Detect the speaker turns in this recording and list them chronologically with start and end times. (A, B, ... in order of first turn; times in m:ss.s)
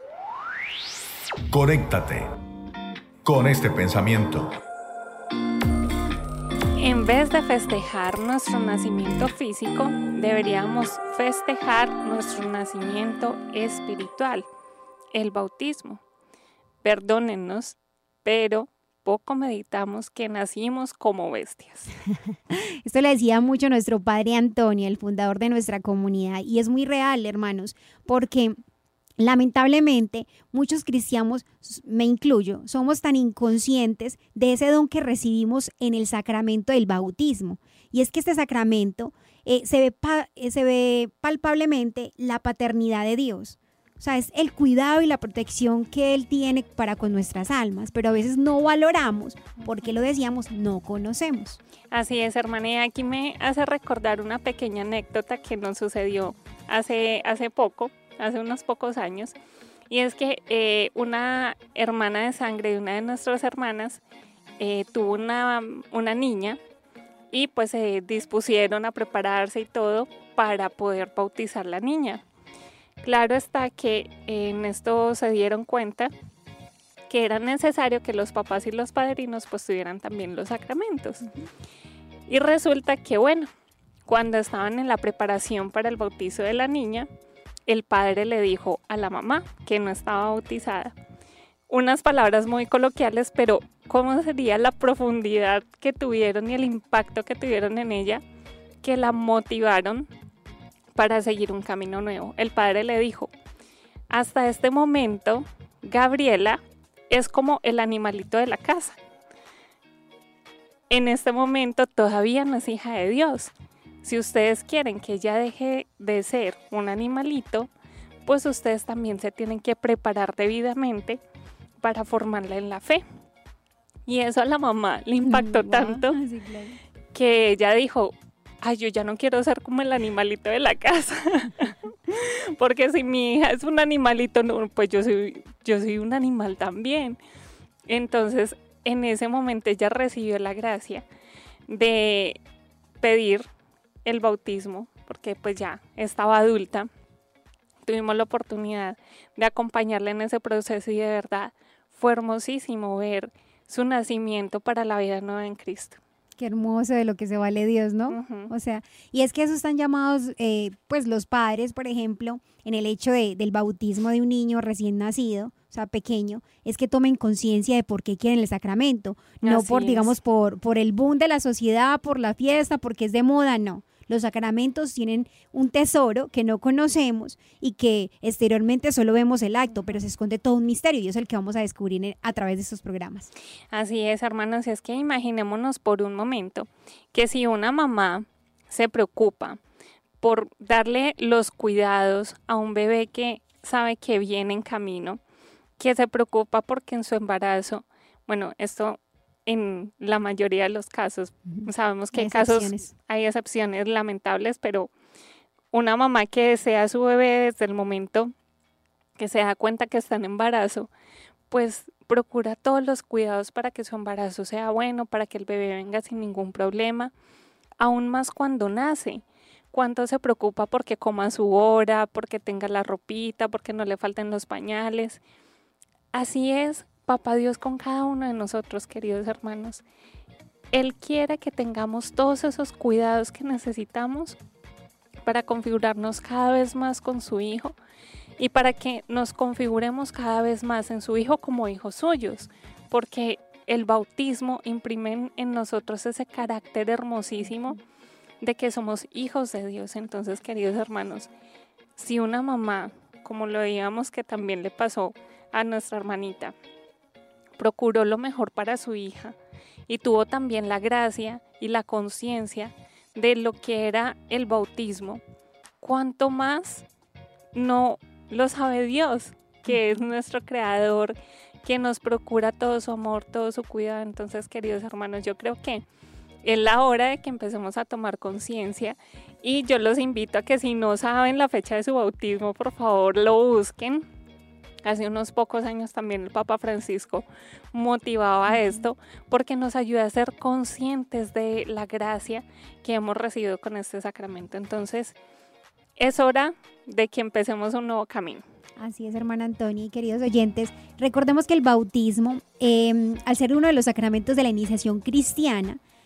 0:01.5-0:02.3 A
0:03.2-0:04.5 A
0:06.8-0:14.5 B
0:15.1-0:16.0 B
0:16.8-0:21.9 B
0:22.5-0:28.6 C
0:29.2-0:51.6 C
0:51.9-0:59.4 B
0:59.9-1:04.0 B
1:04.6-1:06.6 B
1:07.3-1:12.2 B
1:13.0-1:16.1 B
1:17.1-1:21.3 B
1:22.3-1:23.5 B
1:24.1-1:27.1 B
1:27.7-1:30.9 B
1:31.7-1:38.2 B
1:38.8-1:40.1 B
1:41.0-1:43.3 B
1:44.1-1:49.0 B
1:50.9-1:53.5 B
1:54.0-1:57.7 B
1:58.3-2:01.2 B
2:01.8-2:03.0 B
2:04.1-2:06.2 B
2:05.2-2:06.8 C
2:07.1-2:17.2 B
2:17.9-2:21.0 B
2:21.7-2:22.4 B
2:23.0-2:23.5 B
2:24.0-2:26.9 B
2:27.9-2:36.0 B
2:36.4-3:03.3 C
2:38.1-2:38.5 B
2:49.4-2:50.1 B
3:03.7-3:09.6 B
3:10.2-3:15.2 B
3:15.8-3:24.9 B
3:21.5-3:22.9 C
3:25.7-3:28.3 B
3:29.2-3:30.9 B
3:31.5-3:37.1 B
3:37.8-3:45.2 B
3:46.1-3:49.8 B
3:50.7-3:54.4 B
3:55.2-3:57.8 B
3:58.4-4:07.8 B
4:08.4-4:11.3 B
4:12.0-4:16.6 B
4:17.6-4:19.4 B
4:19.9-4:25.2 B
4:25.8-4:26.9 B
4:27.5-4:35.8 B
4:36.4-4:44.0 B
4:44.8-4:55.2 B
4:48.5-4:48.8 C
4:56.0-4:58.4 B
4:58.8-5:05.8 C